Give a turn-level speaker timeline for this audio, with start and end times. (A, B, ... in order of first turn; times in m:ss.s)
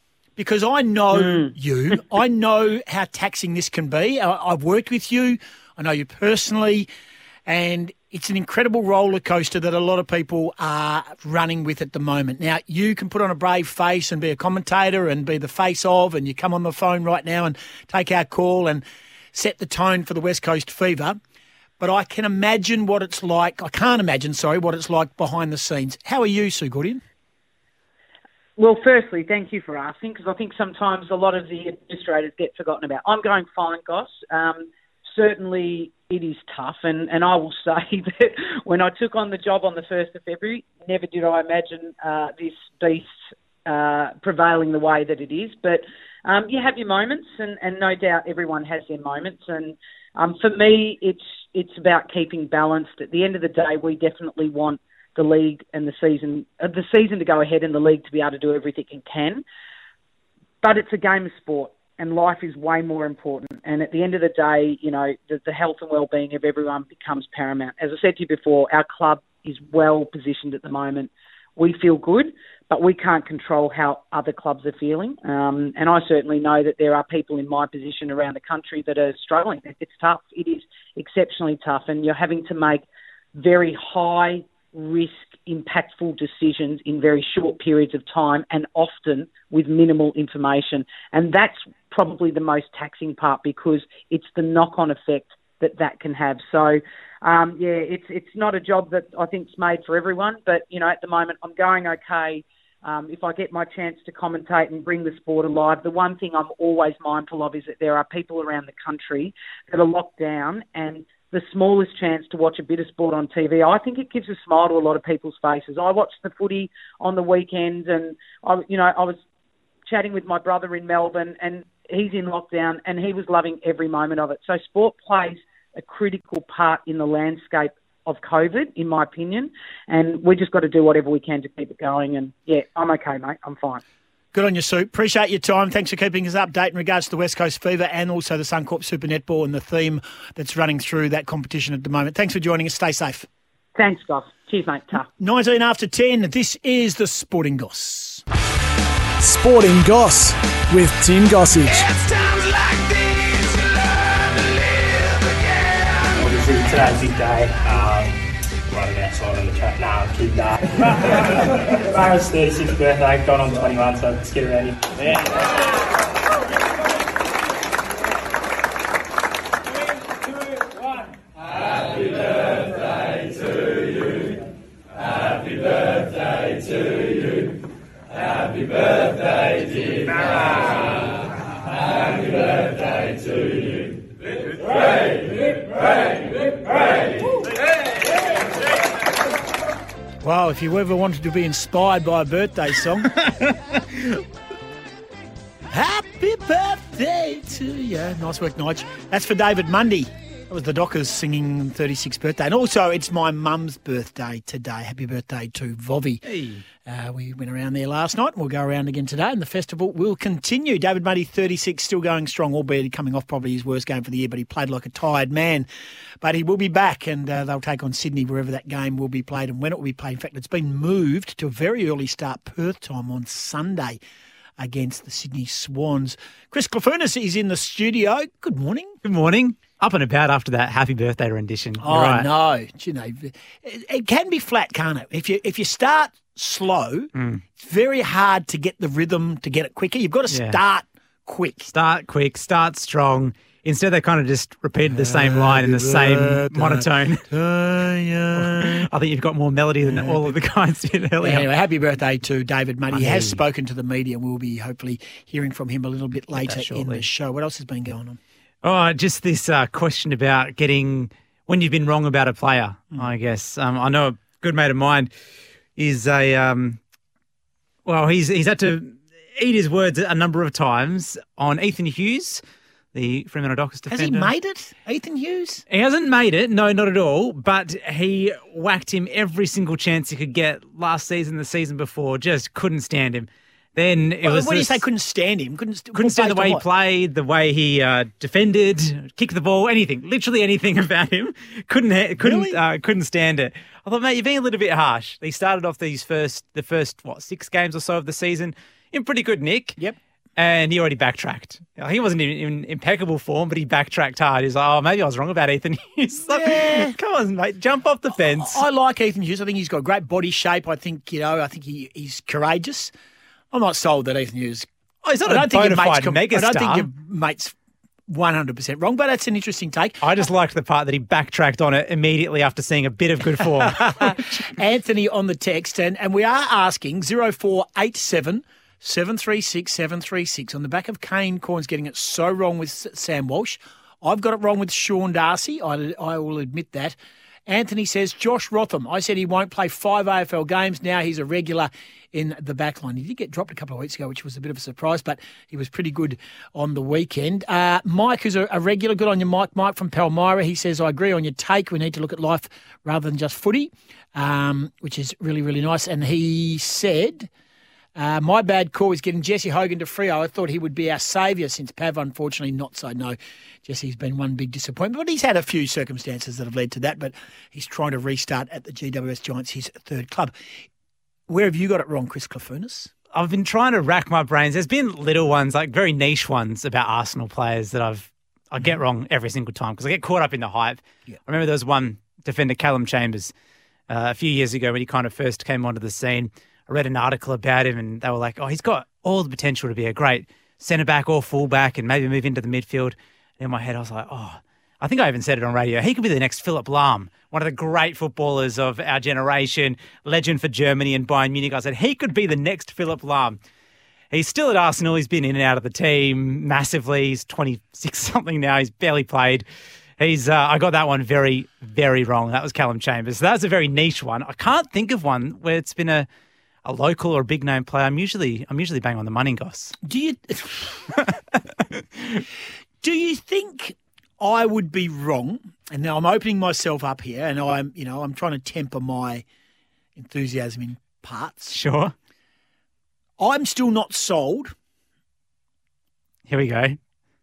0:00.4-0:06.9 A
0:01.2-0:01.5 B
0:07.4-0:18.8 A
0:19.3-0:21.2 A
0:21.8-0:27.0 A
0:28.6-0:43.1 B
0:43.6-0:59.4 B
1:00.6-1:22.8 B
1:23.3-1:59.2 B
1:59.9-2:13.8 B
2:14.3-2:23.3 A
2:23.8-2:25.0 B
2:25.2-2:28.2 A
2:29.2-2:31.9 C
2:36.2-2:45.4 D
3:10.2-3:13.1 A
3:13.2-3:13.6 E
3:15.7-3:26.2 A
3:26.3-3:26.6 E
3:26.8-3:35.6 A
3:36.2-3:44.0 A
3:44.6-3:48.9 A
3:49.0-3:52.3 E
3:51.8-4:01.7 A
3:57.1-3:57.4 E
4:00.3-4:00.6 E
4:01.7-4:07.2 E
4:04.9-4:08.9 A
4:08.4-4:11.4 E
4:09.9-4:10.3 A
4:11.2-4:18.2 A
4:12.9-4:13.4 E
4:16.4-4:17.0 E
4:18.6-4:25.1 E
4:25.8-4:26.8 E
4:27.8-4:32.4 E
4:32.9-4:34.3 E
4:33.9-4:35.6 A
4:35.7-4:44.8 E
4:44.2-4:46.6 A
4:46.0-4:59.8 E
4:52.2-4:52.6 A
5:00.4-5:08.6 E
5:06.3-5:07.0 A
5:08.3-5:12.9 A
5:13.5-5:14.7 A
5:15.0-5:16.9 E
5:15.2-5:17.5 A
5:18.1-5:20.0 A
5:20.0-5:24.4 E
5:23.7-5:37.0 A
5:37.5-5:57.3 A
5:58.0-6:10.3 A
6:11.3-6:12.9 A
6:13.1-6:23.3 E
6:23.9-6:43.4 E
6:44.1-6:49.4 E
6:50.0-6:56.1 E
6:56.6-6:59.7 E
6:59.8-7:00.8 A
7:01.7-7:02.2 E
7:02.8-7:09.2 A
7:10.0-7:11.6 A
7:11.5-7:11.9 E
7:13.2-7:14.5 A
7:16.3-7:16.8 E